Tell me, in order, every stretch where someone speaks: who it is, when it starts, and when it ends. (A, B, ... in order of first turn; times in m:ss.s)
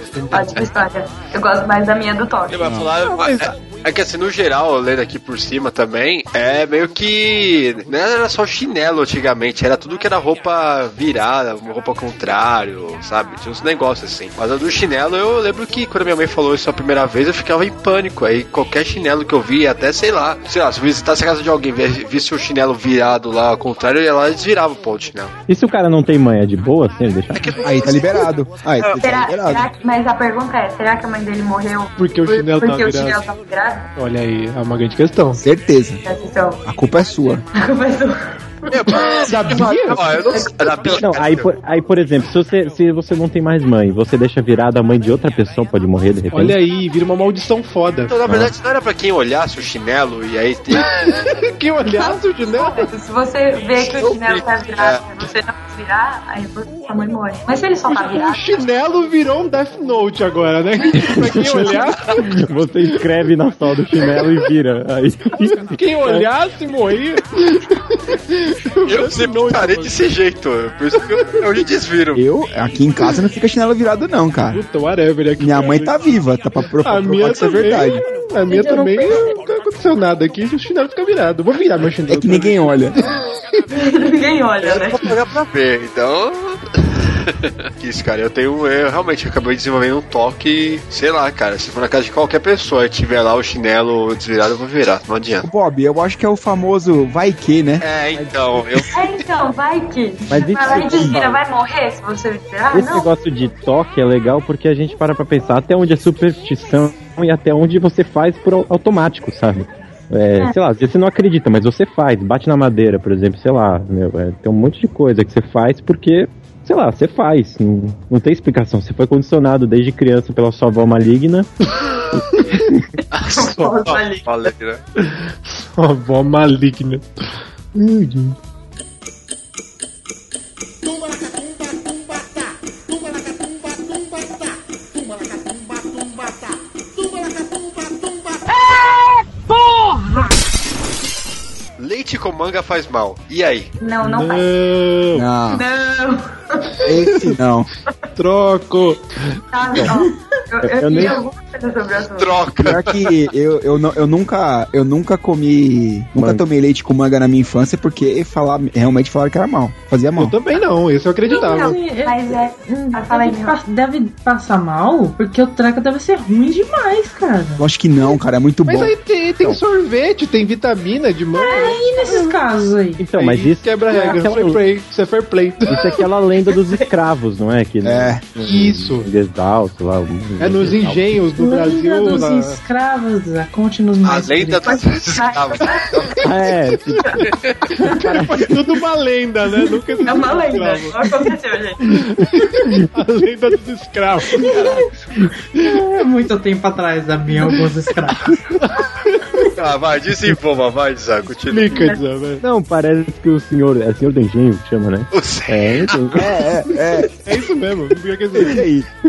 0:00.3-0:02.8 A
0:02.5-0:25.3 B
0:02.8-0:03.5 C
0:25.5-0:27.6 D
0:27.3-0:28.2 B
0:27.6-0:29.6 E
0:29.0-0:33.8 A
0:32.0-0:33.2 C
0:34.0-0:35.4 C
0:35.4-0:36.0 E
0:36.0-0:36.6 A
0:36.6-0:37.4 E
0:37.5-0:41.0 A
0:38.7-0:41.5 B
0:39.2-0:40.1 C
0:41.0-0:46.6 D
0:46.3-0:48.1 C
0:48.1-0:50.8 B
0:50.7-0:52.9 C
0:51.9-0:58.6 A
0:53.8-0:55.0 B
0:57.9-1:02.0 C
1:01.3-1:06.2 D
1:05.6-1:10.0 C
1:08.8-1:12.2 B
1:12.1-1:14.6 E
1:14.5-1:16.1 C
1:15.4-1:18.0 E
1:16.8-1:23.0 C
1:22.1-1:22.9 E
1:23.7-1:25.1 A
1:24.6-1:35.5 B
1:35.4-1:37.8 E
1:37.8-1:39.1 B
1:38.2-1:38.6 D
1:38.9-1:43.1 A
1:40.3-1:41.2 D
1:40.6-1:41.3 E
1:42.7-2:01.5 D
2:03.1-2:04.8 B
2:03.2-2:04.5 A
2:05.0-2:07.1 C
2:07.8-2:08.3 C
2:21.8-2:23.7 B
2:23.8-2:24.5 A
2:24.0-2:25.3 C
2:25.1-2:25.6 E
2:25.5-2:26.7 A
2:26.8-2:27.7 E
2:28.2-2:29.0 C
2:29.5-2:32.5 A
2:30.6-2:31.2 D
2:32.2-2:33.1 B
2:32.6-2:40.3 E
2:36.1-2:36.4 D
2:40.1-2:41.8 C
2:41.2-2:43.6 A
2:41.6-2:47.6 F
2:47.6-2:48.9 E
2:48.6-2:52.3 C
2:51.4-2:52.2 A
2:51.6-2:53.1 F
2:53.0-2:54.6 D
2:53.2-2:55.8 C
2:55.7-3:01.1 D
2:57.8-2:58.3 E
2:58.4-2:59.1 C
3:00.4-3:02.6 C
3:01.4-3:04.7 F
3:04.0-3:06.0 B
3:04.6-3:06.0 A
3:06.2-3:07.1 D
3:07.8-3:08.5 D
3:07.9-3:10.9 C
3:10.0-3:11.8 A
3:12.2-3:14.4 C
3:15.8-3:18.3 F
3:18.6-3:19.4 C
3:19.5-3:21.7 B
3:21.5-3:22.4 C
3:21.7-3:22.0 A
3:22.4-3:26.3 D
3:25.1-3:26.2 B
3:26.2-3:27.1 E
3:27.2-3:28.6 C
3:28.4-3:28.8 E